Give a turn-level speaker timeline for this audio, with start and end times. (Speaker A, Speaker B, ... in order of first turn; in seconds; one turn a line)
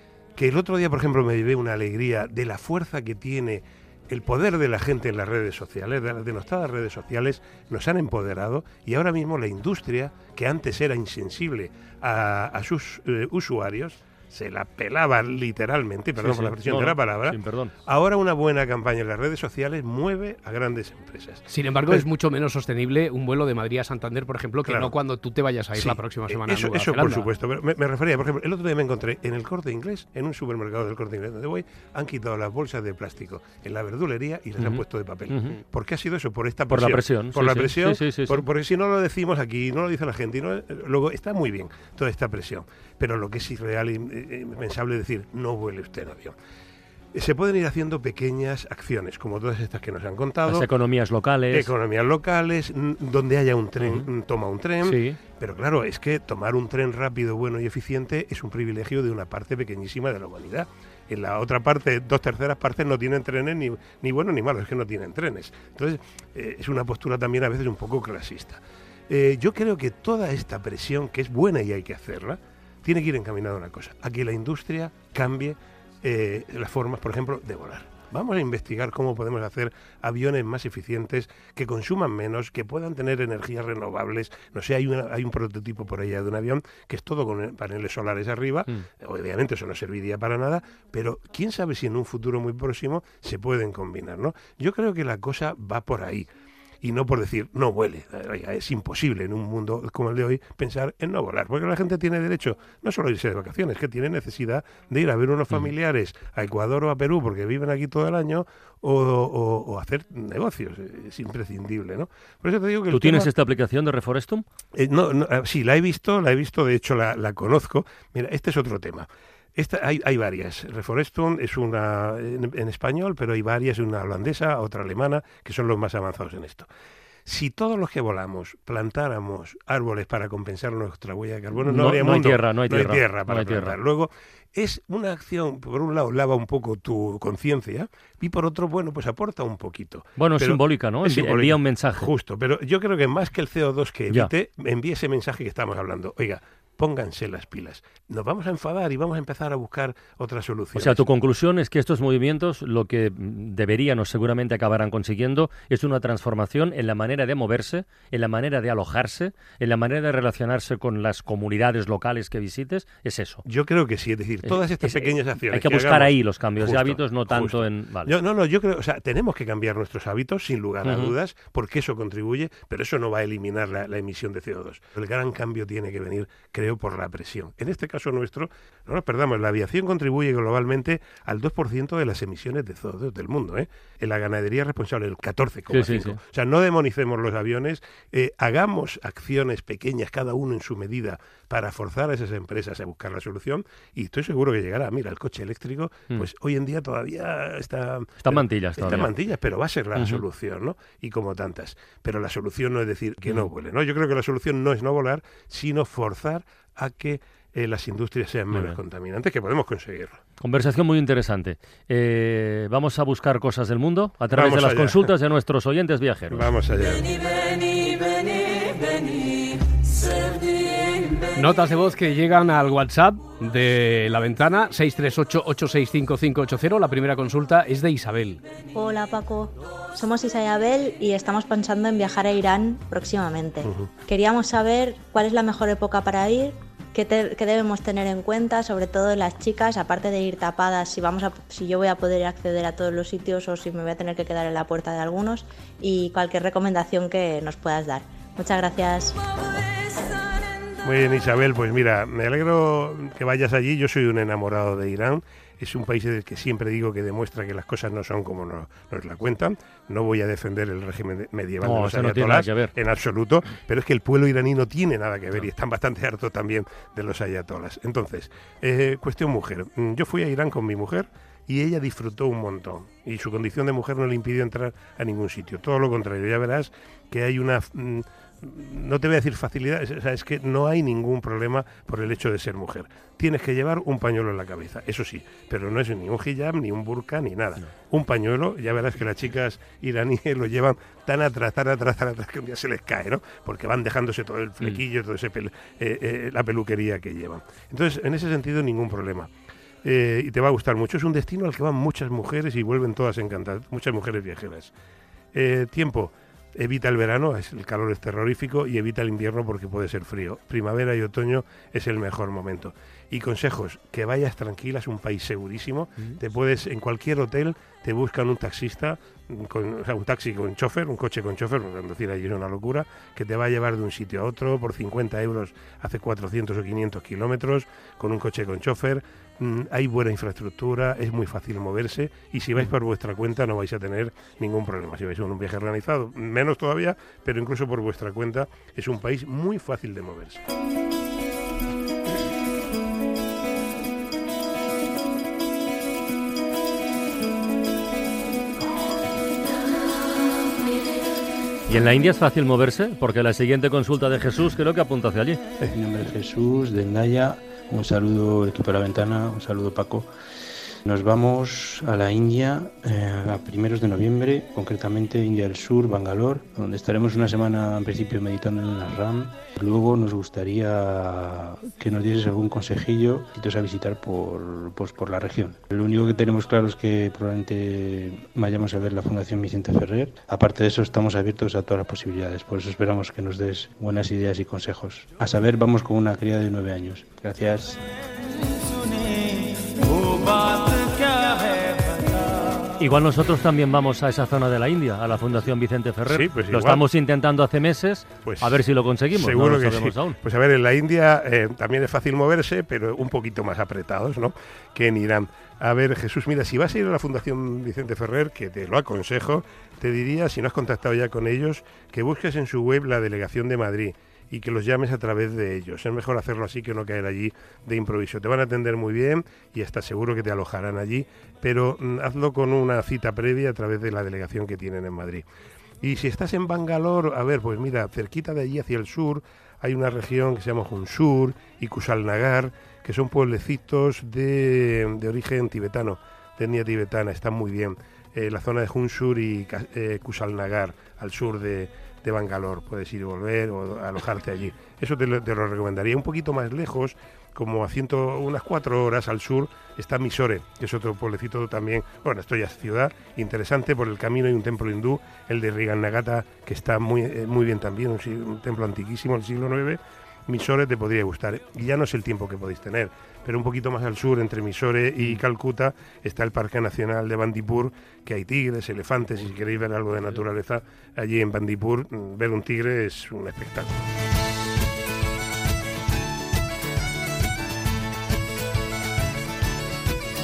Speaker A: 0.4-22.1
Speaker B: 16.2-17.7
Speaker C: 21.5-27.3
Speaker A: 24.6-24.9
Speaker A: 25.7-46.4
Speaker B: 34.7-35.6
Speaker B: 36.7-38.5
Speaker A: 47.1-50.7
Speaker B: 50.5-51.7
Speaker A: 51.5-96.3
Speaker B: 53.8-54.1
Speaker B: 54.8-55.2
Speaker A: 96.8-113.3
Speaker B: 112.9-114.4
Speaker A: 114.7-126.7
Speaker A: 127.3-151.1
Speaker B: 131.6-133.8
Speaker B: 140.2-142.1
Speaker B: 150.8-163.4
Speaker A: 163.4-210.2
Speaker B: 164.4-168.2
Speaker B: 170.8-171.2
Speaker B: 185.7-186.2
Speaker B: 198.2-199.2
Speaker B: 199.9-200.2
Speaker B: 203.2-203.5
Speaker B: 208.5-208.8
Speaker B: 210.4-216.5
Speaker A: 214.3-215.0
Speaker A: 216.3-217.2
Speaker C: 221.4-228.4
Speaker D: 228.8-249.2
Speaker A: 233.6-233.9
Speaker A: 250.8-299.3
Speaker B: 261.6-262.7
Speaker A: 299.8-304.7
Speaker A: 305.3-340.4
Speaker B: 351.7-355.4
Speaker E: 355.7-360.1
Speaker E: 360.9-387.8
Speaker B: 392.8-400.2
Speaker A: 396.1-396.8
Speaker A: 398.2-425.3
Speaker A: 425.8-473.9